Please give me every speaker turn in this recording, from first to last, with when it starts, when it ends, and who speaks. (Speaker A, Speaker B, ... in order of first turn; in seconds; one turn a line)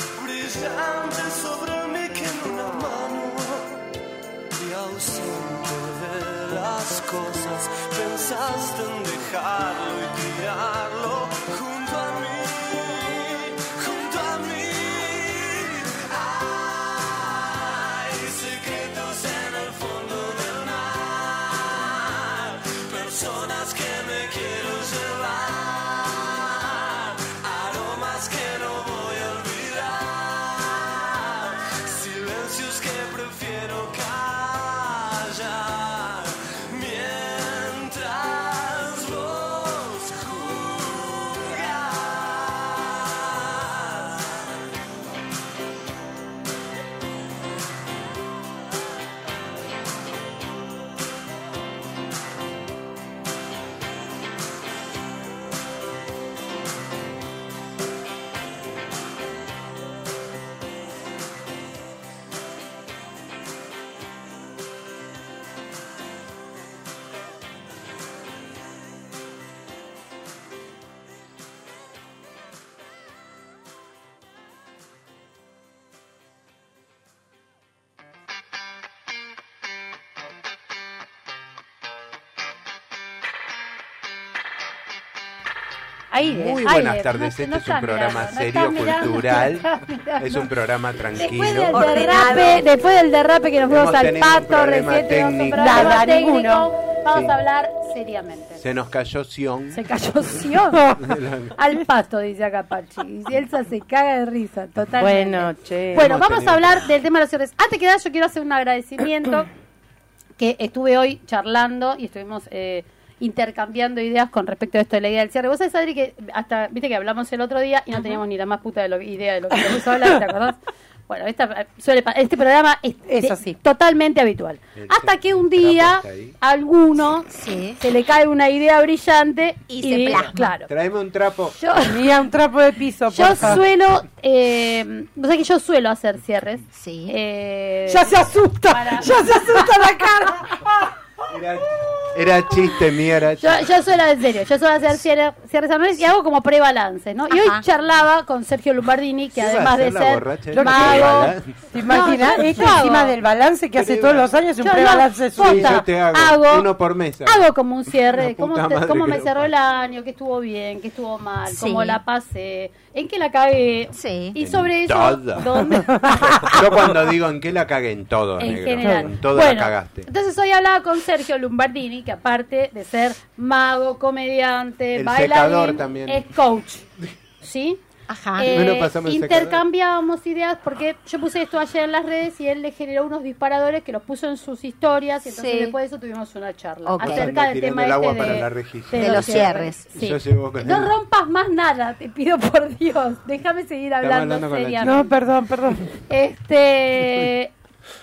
Speaker A: 0.2-3.8
Speaker A: 4.6-44.5
Speaker B: 86.1-90.5
Speaker C: 86.3-92.3
Speaker B: 91.1-98.6
Speaker D: 91.7-92.7
Speaker C: 93.7-96.0
Speaker E: 95.6-96.7
Speaker C: 97.1-97.3
Speaker C: 98.6-99.8
Speaker B: 99.7-101.0
Speaker E: 100.7-101.0
Speaker C: 101.0-101.6
Speaker B: 101.5-109.5
Speaker E: 105.0-106.1
Speaker C: 105.9-106.9
Speaker B: 110.4-130.7
Speaker D: 118.0-118.2
Speaker E: 123.1-123.6
Speaker C: 124.8-126.4
Speaker D: 127.3-127.8
Speaker D: 129.7-130.6
Speaker C: 130.7-131.6
Speaker B: 131.6-132.2
Speaker E: 131.9-133.6
Speaker B: 133.1-139.7
Speaker D: 136.7-137.2
Speaker E: 137.9-140.9
Speaker C: 141.3-143.7
Speaker B: 143.4-153.2
Speaker D: 147.3-147.6
Speaker C: 149.3-151.6
Speaker E: 150.5-155.8
Speaker C: 153.7-154.8
Speaker B: 154.6-156.7
Speaker C: 155.4-157.5
Speaker B: 157.2-166.6
Speaker C: 158.1-159.5
Speaker D: 161.5-162.0
Speaker D: 163.9-164.3
Speaker C: 164.4-170.1
Speaker E: 166.0-166.4
Speaker B: 168.4-176.9
Speaker C: 174.9-176.3
Speaker B: 177.4-177.8
Speaker D: 178.1-178.5
Speaker B: 178.4-195.2
Speaker C: 178.5-179.6
Speaker D: 185.3-185.8
Speaker D: 186.9-187.3
Speaker C: 187.0-190.9
Speaker D: 189.0-189.9
Speaker C: 194.0-195.1
Speaker E: 194.8-195.9
Speaker B: 195.9-197.5